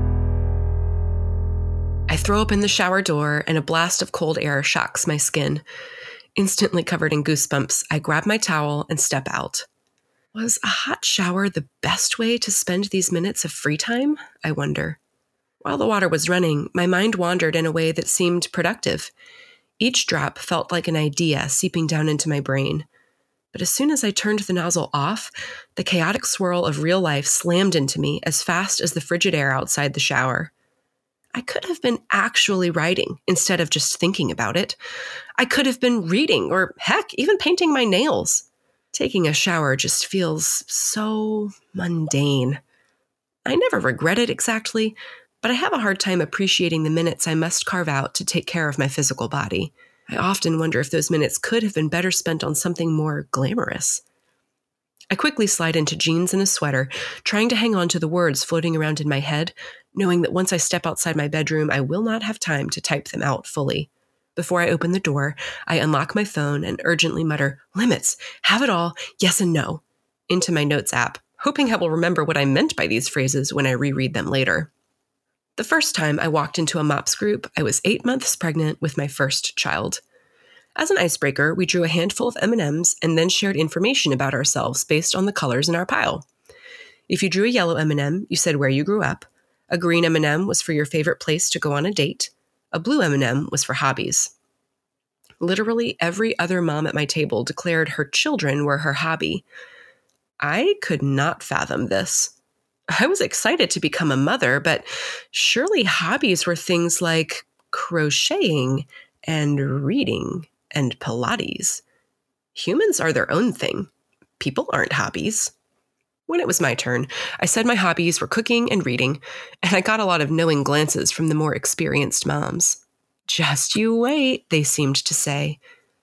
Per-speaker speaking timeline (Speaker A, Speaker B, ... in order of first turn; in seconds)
Speaker A: 2.1-5.6, 6.3-9.7, 10.3-15.0, 15.6-19.1, 19.8-22.9, 23.5-30.5, 31.3-34.8, 35.4-42.6, 43.5-54.0, 55.1-74.7, 75.5-80.0, 80.8-86.2, 87.1-94.3, 95.4-99.4, 100.4-102.3, 102.9-111.8, 112.5-115.5, 116.3-125.6